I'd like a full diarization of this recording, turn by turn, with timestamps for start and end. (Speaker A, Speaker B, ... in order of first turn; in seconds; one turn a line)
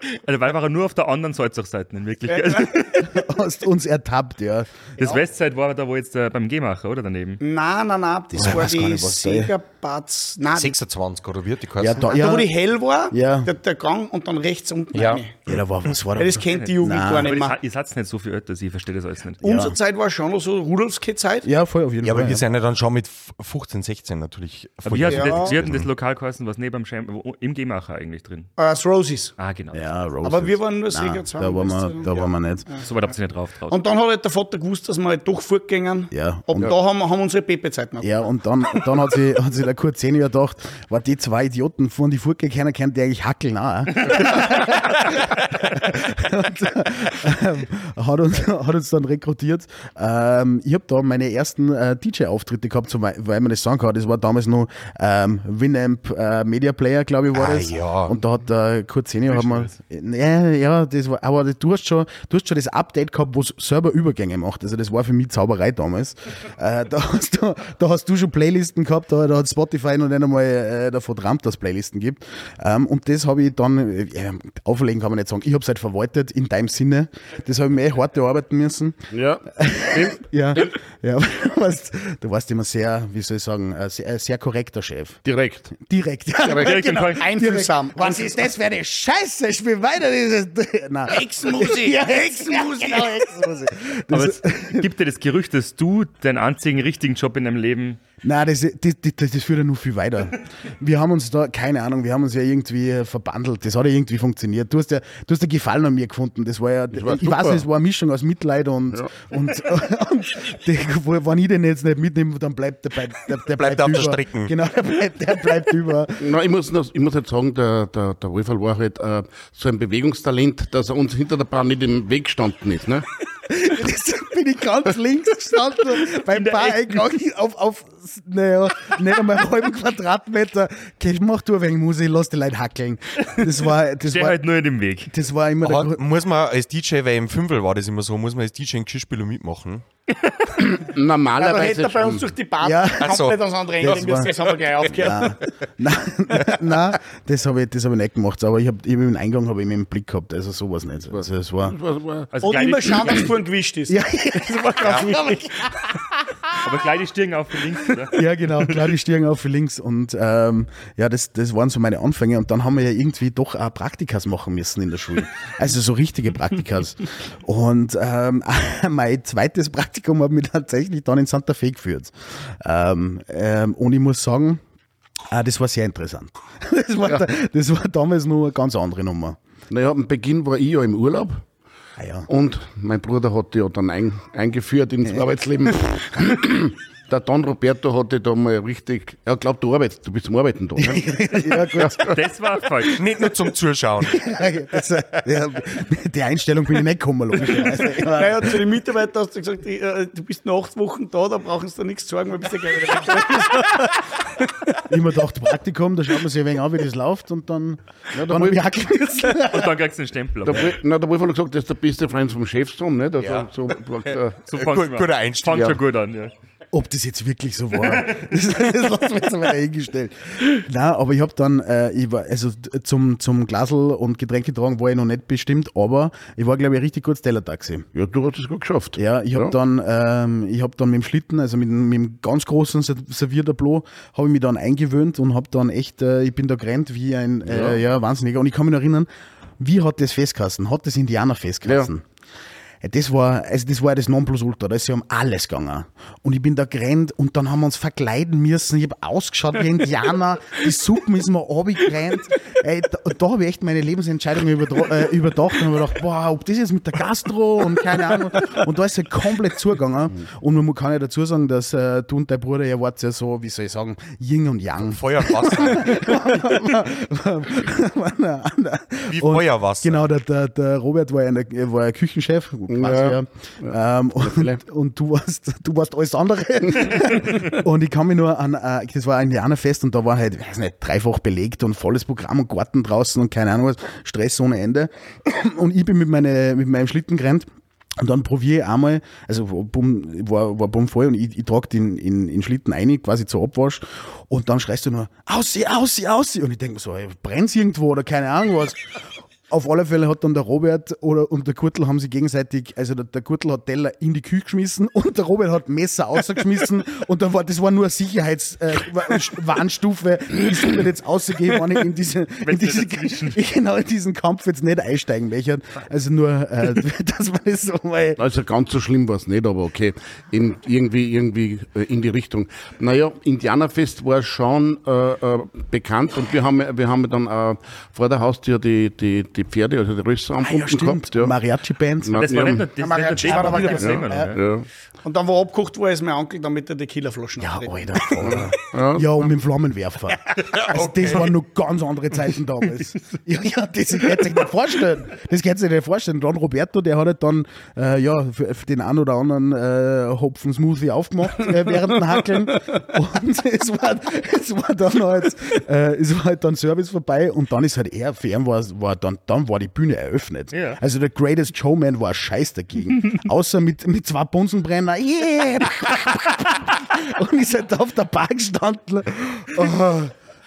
Speaker A: 0.1-3.2
Speaker B: 3.0-4.7
Speaker A: 5.0-7.4
Speaker C: 7.4-10.7
Speaker B: 8.3-9.5
Speaker D: 10.5-12.0
Speaker B: 11.8-12.5
Speaker C: 12.0-15.4
Speaker B: 13.1-13.5
Speaker D: 14.9-15.2
Speaker B: 15.5-17.4
Speaker C: 16.1-17.5
Speaker A: 16.5-19.4
Speaker B: 19.4-19.8
Speaker C: 19.4-21.5
Speaker B: 21.4-22.4
Speaker D: 22.0-25.9
Speaker A: 24.8-28.5
Speaker C: 25.1-25.5
Speaker C: 28.6-29.3
Speaker A: 29.4-29.9
Speaker B: 29.7-32.7
Speaker C: 30.2-32.0
Speaker A: 32.8-33.8
Speaker C: 33.7-38.3
Speaker B: 36.1-36.7
Speaker B: 38.0-79.0
Speaker D: 57.3-58.1
Speaker E: 79.1-80.8
Speaker B: 79.5-85.2
Speaker E: 85.2-85.7
Speaker B: 85.7-94.9
Speaker C: 86.5-88.4
Speaker A: 86.5-87.3
Speaker C: 91.1-93.2
Speaker A: 94.1-98.0
Speaker B: 98.2-116.3
Speaker E: 106.9-107.6
Speaker D: 113.5-114.5
Speaker E: 116.2-123.0
Speaker B: 123.5-134.4
Speaker A: 126.3-126.8
Speaker A: 134.1-135.1
Speaker B: 135.1-136.0
Speaker D: 135.6-139.8
Speaker E: 140.6-142.3
Speaker C: 141.4-145.4
Speaker B: 142.6-143.2
Speaker D: 143.0-144.2
Speaker B: 143.8-144.3
Speaker B: 145.0-151.8
Speaker E: 151.1-152.3
Speaker A: 152.3-153.3
Speaker C: 152.4-155.8
Speaker B: 153.9-155.2
Speaker A: 156.6-158.2
Speaker B: 158.1-174.6
Speaker B: 175.3-179.4
Speaker E: 179.7-181.4
Speaker B: 182.0-182.3
Speaker E: 182.3-192.2
Speaker B: 190.8-192.1
Speaker A: 192.0-193.0
Speaker D: 192.9-194.3
Speaker B: 194.0-198.6
Speaker C: 197.9-204.5
Speaker B: 204.9-209.8
Speaker E: 208.1-208.6
Speaker A: 209.4-210.7
Speaker E: 210.4-214.4
Speaker D: 213.2-213.5
Speaker D: 214.1-215.8
Speaker A: 214.5-216.3
Speaker B: 216.7-227.9
Speaker A: 217.8-218.2
Speaker E: 227.9-229.5
Speaker B: 228.9-239.1
Speaker E: 237.5-237.8
Speaker B: 239.6-242.0
Speaker B: 242.8-287.5
Speaker D: 264.9-266.2
Speaker D: 269.1-270.1
Speaker E: 272.7-274.6
Speaker B: 288.0-318.2
Speaker A: 312.4-313.4
Speaker E: 318.2-331.3
Speaker B: 330.4-332.3
Speaker E: 332.0-334.6
Speaker A: 332.2-334.4
Speaker C: 332.8-334.2
Speaker B: 334.1-334.3
Speaker C: 335.0-338.4
Speaker B: 337.4-370.1
Speaker E: 338.2-339.1
Speaker D: 340.5-341.3
Speaker A: 360.5-360.8